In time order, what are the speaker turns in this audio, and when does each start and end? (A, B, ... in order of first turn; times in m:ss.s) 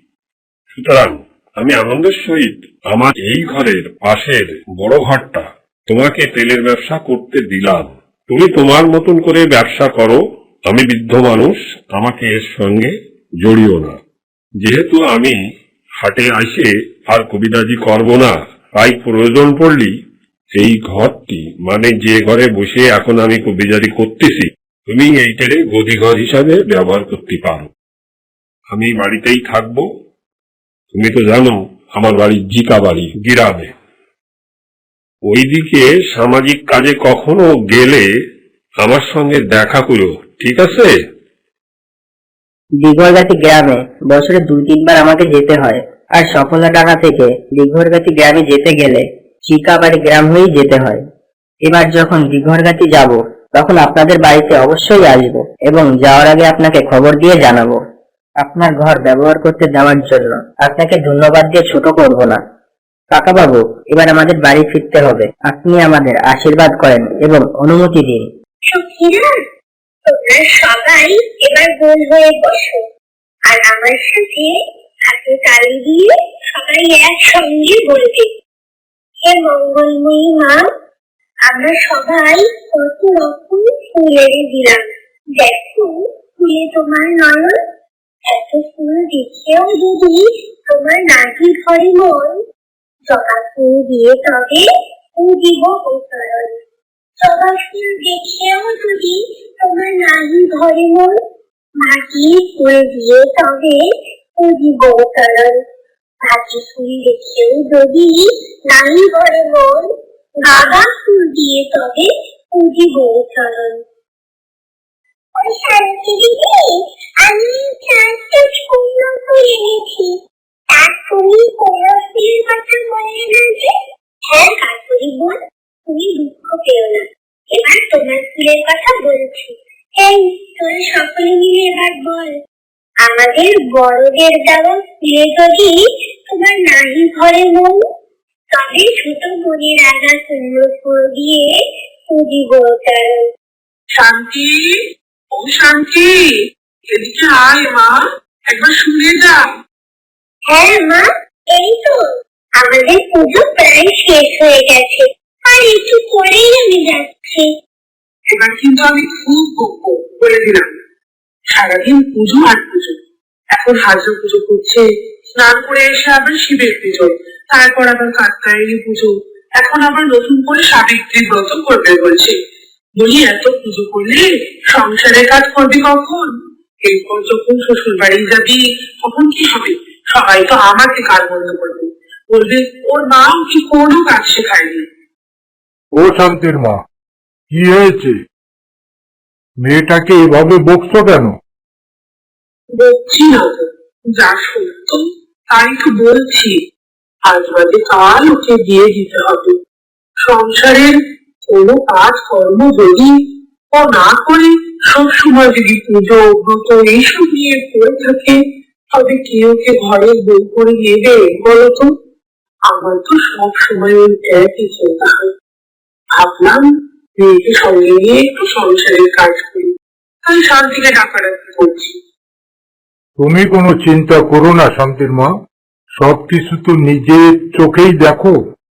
0:00.7-0:14.0 A
0:14.6-0:15.4 A
0:16.0-0:19.9 A
0:20.6-0:27.7 A
0:28.7-0:29.8 A
0:30.9-0:33.7 A
0:35.3-0:38.0 A
0:38.8-0:40.9 A
0:42.8-0:51.0 B
0:51.6-0:57.8 B
0:58.4-1:02.4 B
1:03.1-1:08.2 B
1:08.7-1:09.3 C
1:10.0-1:12.8 C
1:13.5-1:14.5 C
1:15.0-1:18.3 C
1:19.2-1:20.6 C
1:21.4-1:27.6 C
1:28.3-1:32.4 C
1:33.0-1:36.5 C
1:37.2-1:41.2 C
1:41.8-1:45.6 C
1:46.2-1:53.8 C
1:55.4-2:03.7 C
2:04.3-2:12.3 C
2:13.0-2:15.8 C
2:16.3-2:17.8 C
2:18.5-2:23.2 C
2:23.9-2:24.8 D
2:25.3-2:26.3 D
2:26.9-2:29.4 D
2:30.5-2:32.1 C
2:32.6-2:37.5 C
2:38.3-2:40.7 D
2:41.5-2:43.0 D
2:43.5-2:52.3 D
2:53.0-2:56.3 D
2:56.8-3:04.8 D
3:05.9-3:06.8 E
3:07.5-3:08.2 E
3:09.6-3:11.3 E
3:12.7-3:16.6 D
3:17.3-3:19.6 D
3:20.2-3:20.9 D
3:21.5-3:23.1 D
3:23.7-3:28.4 D
3:28.9-3:31.9 D
3:32.7-3:35.3 D
3:36.1-3:36.6 D
3:37.2-3:42.0 D
3:43.2-3:45.3 E
3:46.0-3:48.4 E